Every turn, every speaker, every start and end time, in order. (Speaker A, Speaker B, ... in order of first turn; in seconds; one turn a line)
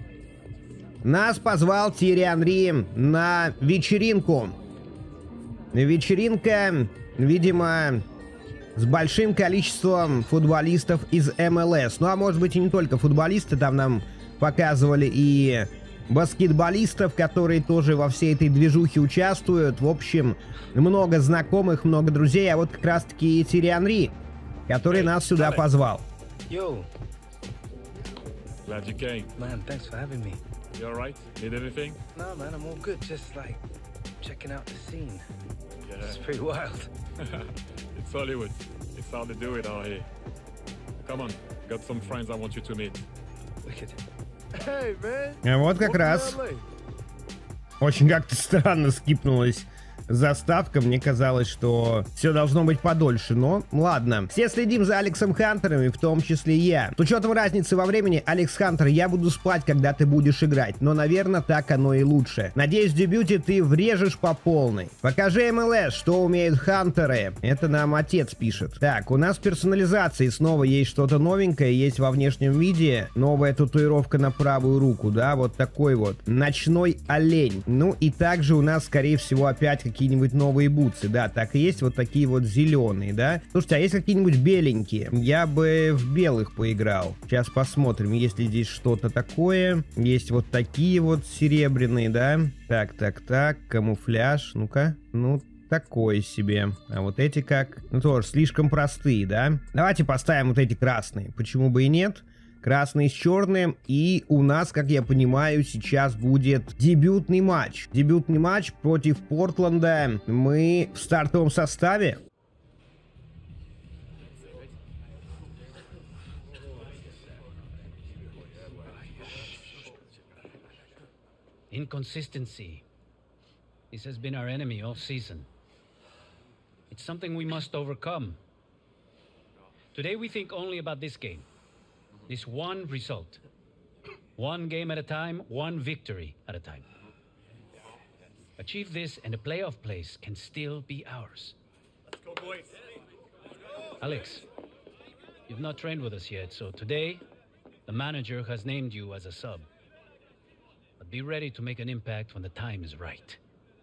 Speaker A: 1.0-4.5
Speaker A: 5.7-8.0
Speaker A: 8.8-24.2
Speaker A: 24.7-26.1
Speaker B: 24.9-25.4
Speaker C: 26.5-26.9
Speaker B: 28.6-29.3
Speaker C: 29.4-30.4
Speaker B: 30.8-32.0
Speaker C: 32.1-33.6
Speaker C: 34.2-35.2
Speaker B: 35.9-36.2
Speaker C: 36.0-36.9
Speaker B: 37.2-40.1
Speaker B: 41.0-43.1
Speaker C: 43.6-44.0
Speaker C: 44.5-46.6
Speaker A: 45.4-46.4
Speaker A: 47.8-112.2
Speaker D: 121.7-122.8
Speaker D: 123.9-125.5
Speaker D: 126.9-128.4
Speaker D: 129.9-131.5
Speaker D: 132.3-133.4
Speaker D: 134.4-136.8
Speaker D: 138.6-141.6
Speaker D: 144.0-144.4
Speaker D: 145.5-147.2
Speaker D: 147.9-149.7
Speaker D: 151.0-153.4